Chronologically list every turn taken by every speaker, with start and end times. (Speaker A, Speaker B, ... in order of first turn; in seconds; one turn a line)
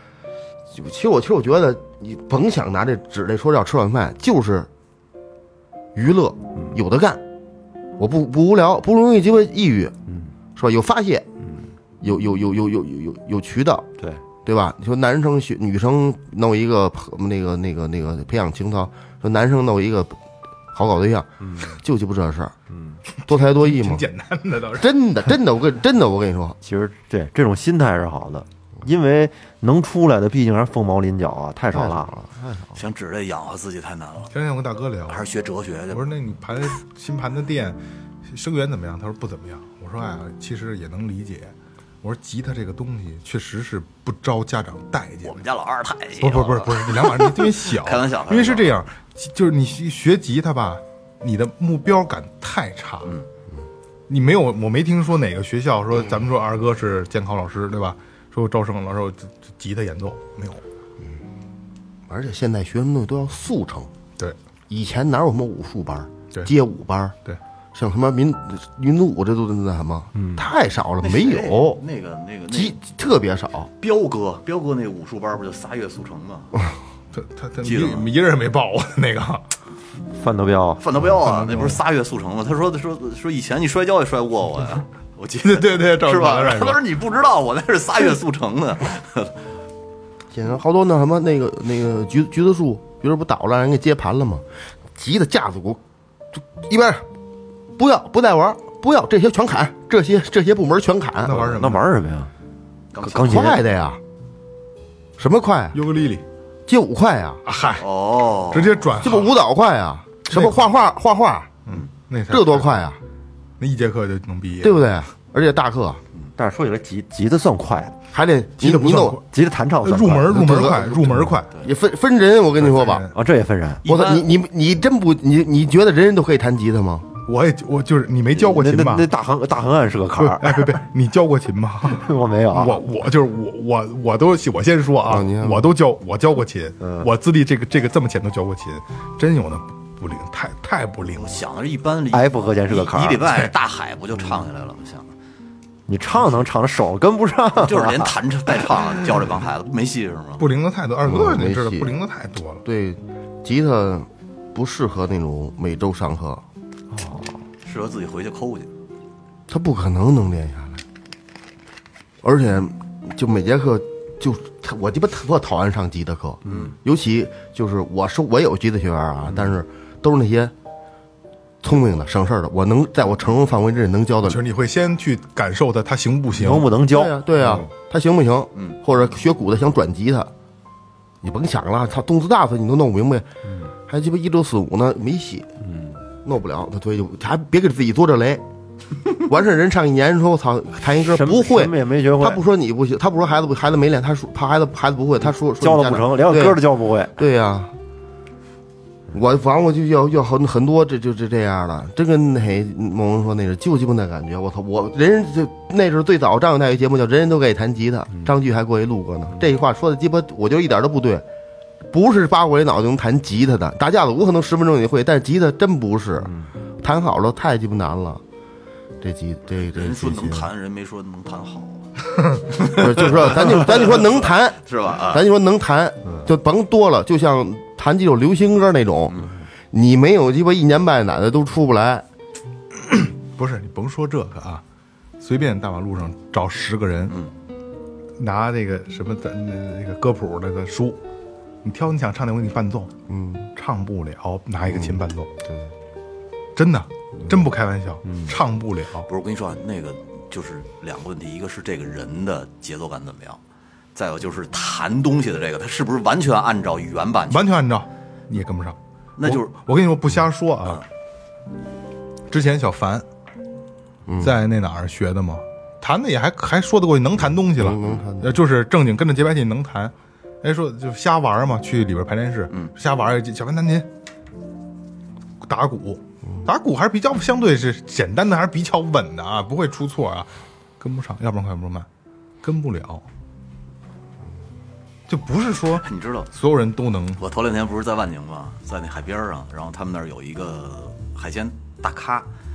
Speaker A: 0.7-4.7
Speaker A: 5.9-7.2
Speaker A: 8.0-9.9
Speaker B: 10.1-10.3
Speaker A: 10.5-11.3
Speaker B: 11.4-11.7
Speaker A: 12.0-13.9
Speaker A: 14.4-20.2
Speaker A: 20.7-22.5
Speaker B: 21.4-21.8
Speaker B: 22.7-23.0
Speaker A: 23.3-24.0
Speaker C: 23.3-24.9
Speaker A: 24.8-26.6
Speaker B: 26.6-32.1
Speaker A: 31.7-32.8
Speaker D: 32.8-34.3
Speaker C: 34.3-35.2
Speaker D: 35.1-36.1
Speaker C: 35.9-45.4
Speaker D: 45.2-48.7
Speaker C: 46.2-53.1
Speaker C: 54.1-60.6
Speaker A: 62.1-63.9
Speaker A: 64.7-67.2
Speaker A: 67.7-71.8
Speaker B: 70.2-70.5
Speaker D: 71.0-72.8
Speaker A: 72.5-73.7
Speaker D: 73.8-76.5
Speaker C: 77.1-79.5
Speaker D: 77.6-78.1
Speaker B: 80.1-80.8
Speaker D: 80.8-89.3
Speaker C: 81.3-81.7
Speaker C: 85.4-86.8
Speaker A: 90.3-95.8
Speaker A: 96.3-97.0
Speaker A: 97.8-101.5
Speaker C: 101.2-101.8
Speaker B: 101.3-102.3
Speaker D: 102.9-103.3
Speaker B: 103.0-103.6
Speaker A: 103.1-104.0
Speaker A: 105.2-105.8
Speaker C: 105.7-106.2
Speaker A: 106.7-107.4
Speaker C: 107.4-107.8
Speaker D: 107.8-108.9
Speaker C: 108.5-109.3
Speaker A: 109.0-111.5
Speaker C: 110.3-110.7
Speaker C: 111.7-112.8
Speaker A: 112.3-113.0
Speaker C: 113.6-114.8
Speaker A: 114.6-116.0
Speaker B: 116.4-118.0
Speaker A: 118.1-119.2
Speaker C: 118.6-119.2
Speaker B: 119.3-120.6
Speaker C: 119.8-121.5
Speaker A: 120.3-123.0
Speaker C: 122.6-123.1
Speaker B: 123.1-123.8
Speaker D: 123.8-124.3
Speaker A: 123.8-127.1
Speaker C: 127.2-129.1
Speaker B: 128.3-130.8
Speaker C: 130.2-141.4
Speaker B: 131.9-132.8
Speaker A: 135.1-135.7
Speaker B: 136.8-137.1
Speaker D: 141.1-145.1
Speaker B: 142.1-143.3
Speaker B: 145.9-148.2
Speaker D: 147.6-150.4
Speaker C: 150.4-152.6
Speaker A: 151.0-151.9
Speaker A: 152.6-156.4
Speaker B: 156.9-157.4
Speaker D: 157.6-158.7
Speaker A: 159.5-160.8
Speaker A: 162.2-170.5
Speaker D: 166.4-166.7
Speaker A: 171.6-174.4
Speaker C: 174.2-176.7
Speaker B: 176.3-177.2
Speaker A: 176.9-180.3
Speaker A: 181.2-183.3
Speaker B: 183.4-183.7
Speaker A: 183.9-185.5
Speaker B: 185.6-186.0
Speaker A: 186.2-188.4
Speaker A: 189.2-196.6
Speaker B: 191.0-192.4
Speaker B: 195.2-197.2
Speaker A: 197.2-197.7
Speaker A: 199.1-211.2
Speaker A: 211.9-218.2
Speaker B: 216.2-216.5
Speaker A: 219.0-220.5
Speaker D: 219.5-221.9
Speaker D: 222.4-225.2
Speaker A: 222.6-232.1
Speaker D: 229.1-229.4
Speaker C: 232.9-234.6
Speaker C: 235.2-237.1
Speaker C: 238.2-241.0
Speaker C: 241.6-242.9
Speaker A: 243.1-243.5
Speaker C: 243.5-245.3
Speaker A: 244.7-245.7
Speaker C: 246.6-249.1
Speaker B: 248.1-248.3
Speaker D: 249.1-253.4
Speaker D: 253.9-257.5
Speaker C: 257.3-260.8
Speaker D: 259.2-259.5
Speaker C: 262.3-263.0
Speaker A: 264.1-264.3
Speaker C: 264.2-273.9
Speaker A: 267.6-268.4
Speaker C: 275.4-281.9
Speaker C: 282.4-283.0
Speaker C: 285.1-287.2
Speaker D: 285.8-286.3
Speaker D: 287.2-292.3